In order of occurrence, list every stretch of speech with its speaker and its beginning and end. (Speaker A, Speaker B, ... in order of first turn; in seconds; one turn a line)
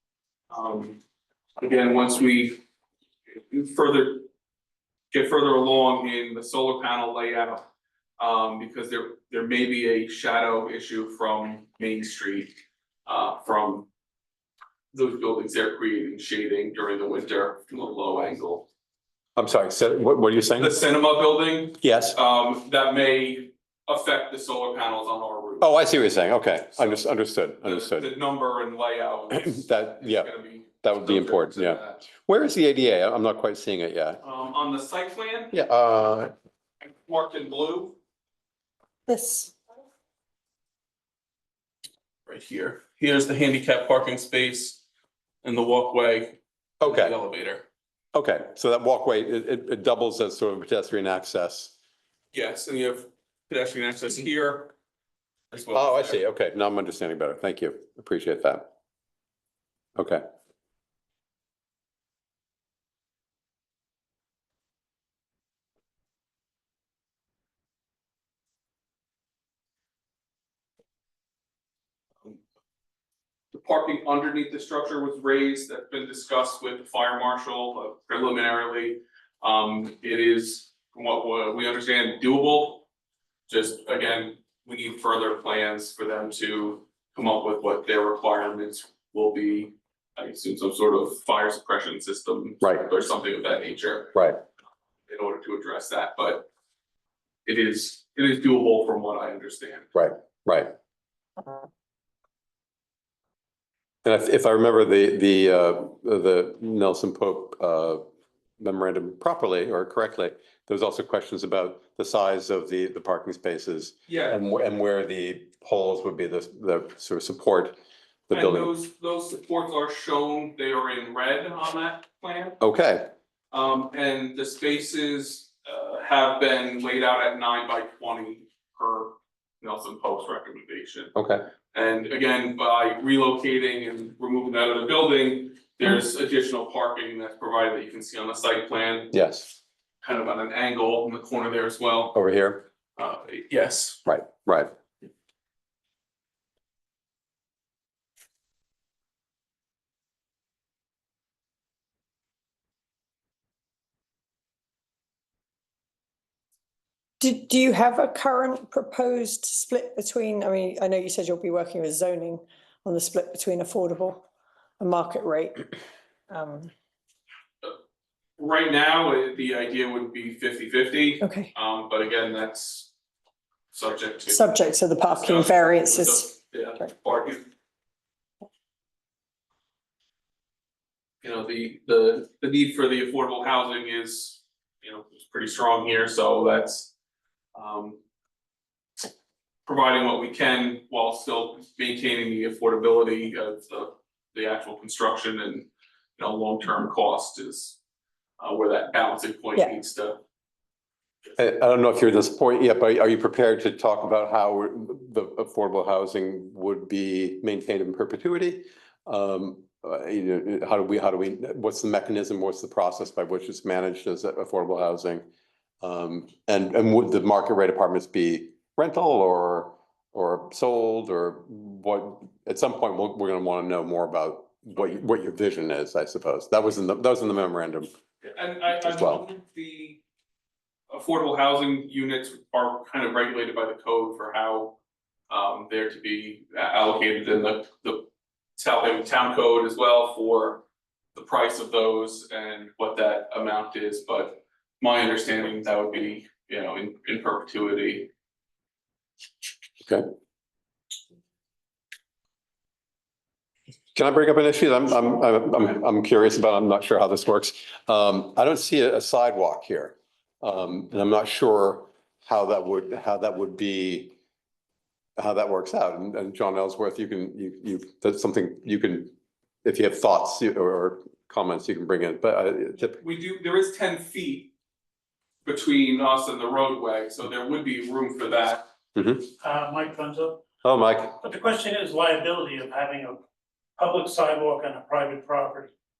Speaker A: 0.5-1.0
Speaker A: 1.6-2.6
Speaker A: 3.3-4.3
Speaker A: 5.1-7.6
Speaker A: 8.2-12.5
Speaker A: 13.1-13.9
Speaker A: 14.9-18.7
Speaker B: 19.4-20.8
Speaker A: 20.6-25.8
Speaker B: 21.8-22.2
Speaker B: 25.6-28.1
Speaker A: 26.7-27.1
Speaker A: 27.6-32.0
Speaker B: 29.3-30.3
Speaker B: 30.8-34.2
Speaker A: 34.2-35.5
Speaker B: 35.5-36.3
Speaker A: 36.8-38.0
Speaker C: 39.1-39.5
Speaker A: 42.2-44.8
Speaker A: 45.4-47.6
Speaker B: 46.8-47.1
Speaker B: 48.1-51.7
Speaker A: 52.3-54.7
Speaker A: 55.5-56.2
Speaker B: 55.7-58.7
Speaker B: 60.0-60.2
Speaker A: 73.5-82.8
Speaker A: 83.5-94.2
Speaker A: 95.1-96.5
Speaker A: 97.4-99.9
Speaker B: 99.9-100.7
Speaker B: 104.0-108.0
Speaker B: 108.6-117.8
Speaker A: 114.1-114.4
Speaker B: 118.3-118.7
Speaker A: 118.3-122.6
Speaker B: 122.6-123.1
Speaker A: 123.5-131.1
Speaker B: 131.1-131.5
Speaker A: 131.7-139.1
Speaker B: 139.1-139.6
Speaker A: 140.0-142.2
Speaker B: 142.1-142.6
Speaker A: 143.0-144.0
Speaker B: 144.1-144.7
Speaker C: 157.2-164.2
Speaker C: 164.8-165.7
Speaker C: 166.3-166.7
Speaker A: 168.4-172.9
Speaker C: 171.2-171.5
Speaker A: 173.7-177.4
Speaker C: 174.3-176.3
Speaker A: 181.2-186.9
Speaker A: 187.5-188.0
Speaker A: 189.7-197.8
Speaker A: 198.4-200.2
Speaker B: 201.4-215.3
Speaker B: 215.8-227.9
Speaker A: 228.2-230.0
Speaker B: 228.8-229.2
Speaker A: 230.9-234.8
Speaker A: 235.3-240.6
Speaker A: 241.1-248.1
Speaker B: 253.9-264.1
Speaker B: 265.2-273.0
Speaker A: 273.0-274.5
Speaker A: 275.4-278.7
Speaker B: 278.9-279.2
Speaker D: 279.4-280.4
Speaker B: 280.6-281.2
Speaker D: 281.2-283.2
Speaker D: 283.8-285.7